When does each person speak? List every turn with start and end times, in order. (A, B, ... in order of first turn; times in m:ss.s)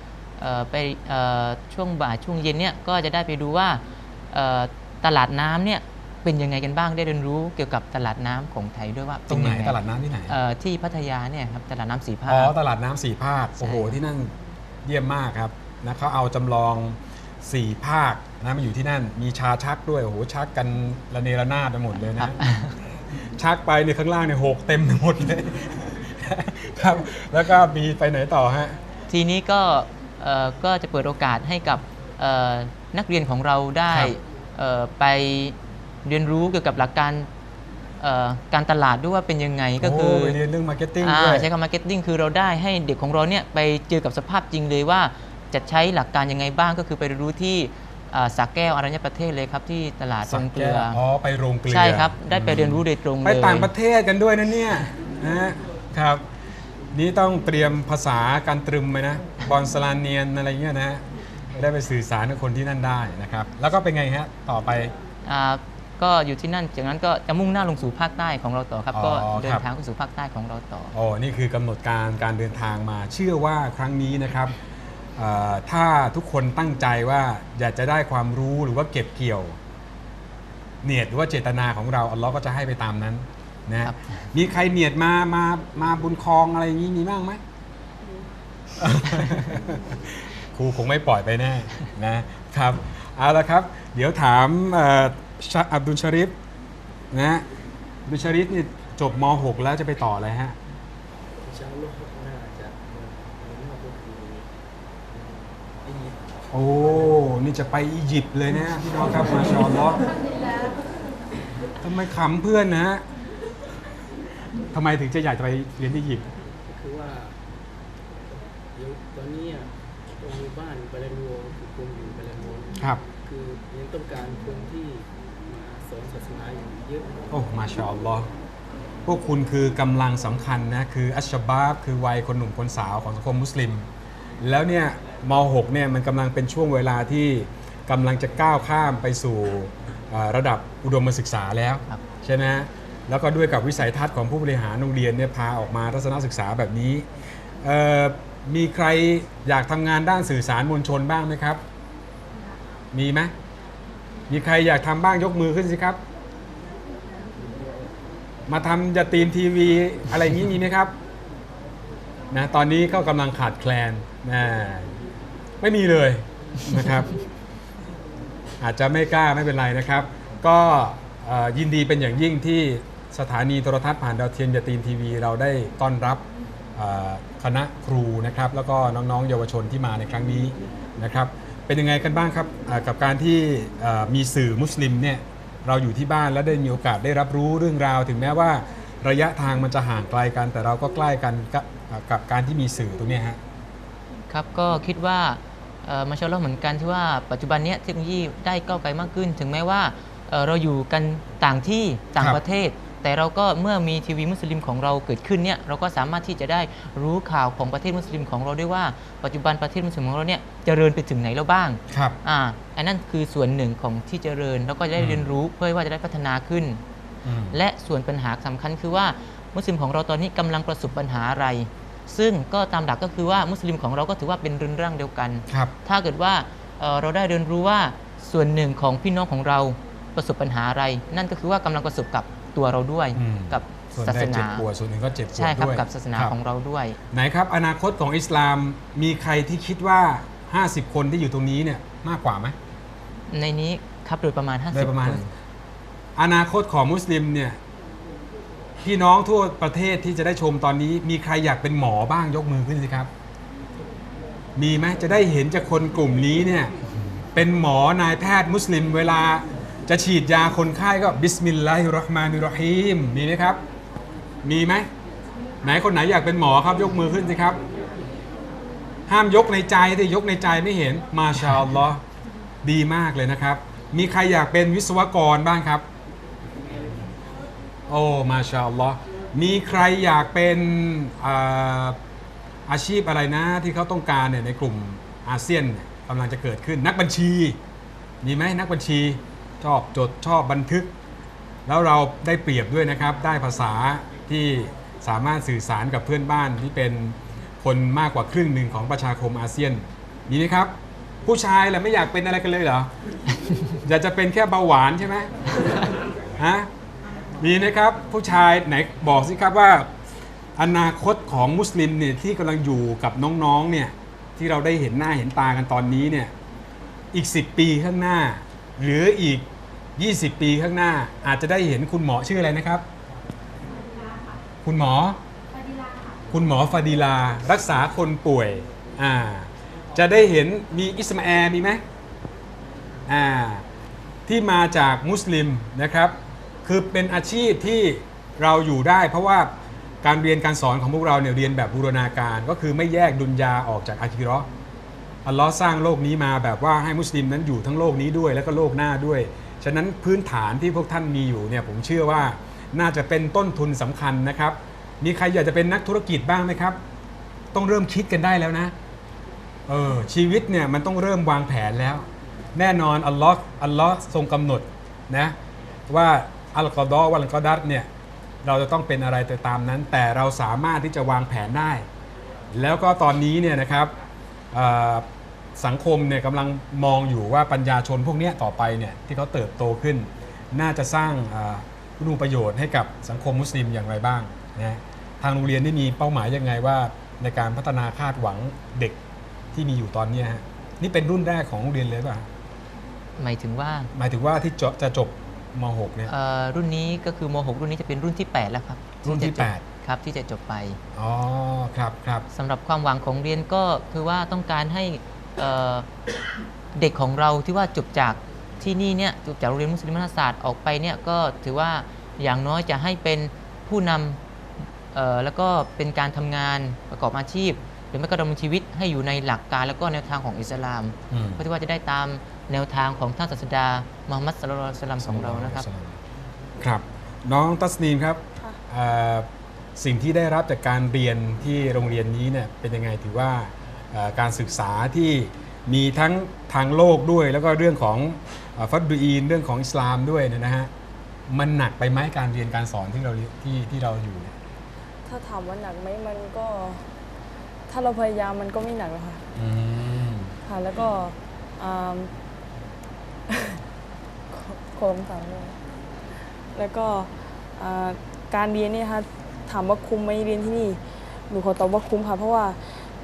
0:00.4-0:12.5 A
0:09.3-0:10.3 B
0:12.3-0:22.4 B
0:13.6-0:14.0 A
0:22.2-0:22.8 A
0:23.2-0:28.8 B
0:29.1-0:37.3 A
0:33.9-0:34.2 B
0:38.0-0:40.4 A
0:39.8-0:41.5 B
0:41.0-0:51.0 A
0:50.3-0:56.3 B
0:51.7-0:53.7 A
0:56.9-1:04.9 B
1:05.2-1:10.9 A
1:08.9-1:09.7 B
1:10.9-1:14.6 B
1:15.2-1:19.6 B
1:20.8-1:27.4 B
1:23.8-1:24.2 A
1:28.8-1:36.3 B
1:37.1-1:37.4 B
1:38.1-1:40.6 B
1:41.3-1:44.5 C
1:45.1-1:47.2 C
1:46.5-1:50.0 B
1:49.0-1:50.6 C
1:51.8-1:53.0 B
1:54.7-1:56.3 B
1:56.6-1:57.4 C
1:58.3-2:07.3 C
2:02.8-2:03.0 B
2:07.3-2:08.3 B
2:09.1-2:13.9 B
2:14.4-2:27.1 B
2:27.6-2:31.6 B
2:32.9-2:33.3 B
2:34.3-2:36.0 B
2:38.5-2:41.0 B
2:42.3-2:44.9 B
2:45.6-2:47.1 B
2:48.6-2:56.2 B
2:56.8-3:13.4 B
3:14.3-3:36.8 A
3:31.9-3:32.2 B
3:35.0-3:35.3 B
3:37.2-3:37.6 B
3:37.5-3:54.6 A
3:53.2-3:56.3 B
3:55.3-3:57.0 A
3:57.1-4:02.6 B
4:03.3-4:05.3 A
4:04.7-4:05.3 B
4:06.2-4:07.6 B
4:08.8-4:13.1 B
4:14.6-4:16.7 B
4:17.3-4:23.6 B
4:24.4-4:24.9 B
4:25.6-4:27.6 B
4:29.1-4:32.0 B
4:32.6-4:35.9 B
4:37.9-4:42.0 B
4:42.7-4:47.6 B
4:48.2-4:50.9 B
4:51.7-5:00.7 B
5:01.2-5:02.9 B
5:03.8-5:05.3 B
5:06.4-5:06.7 B
5:07.4-5:09.9 B
5:10.6-5:16.3 B
5:17.1-5:22.8 B
5:24.6-5:25.2 B
5:26.3-5:31.8 B
5:33.1-5:33.6 B
5:34.3-5:39.5 B
5:40.0-5:44.5 B
5:45.2-5:56.8 B
5:57.5-5:58.7 B
5:59.7-6:05.4 B
6:05.9-6:07.9 B
6:08.4-6:11.9 B
6:12.5-6:13.9 B
6:14.5-6:29.0 B
6:29.5-6:32.3 B
6:33.2-6:33.9 A
6:33.9-6:36.1 B
6:36.1-6:40.8 A
6:39.0-6:39.6 B
6:40.9-6:42.3 B
6:42.3-6:45.9 A
6:46.7-6:54.2 A
6:54.9-7:05.7 A
7:01.1-7:01.4 B
7:05.0-7:06.0 B
7:06.6-7:20.7 B
7:21.3-7:24.4 B
7:25.0-7:26.9 D
7:27.7-7:29.2 D
7:29.4-7:30.3 B
7:30.5-7:32.1 D
7:33.3-7:33.6 D
7:34.3-7:35.6 D
7:36.5-7:42.7 D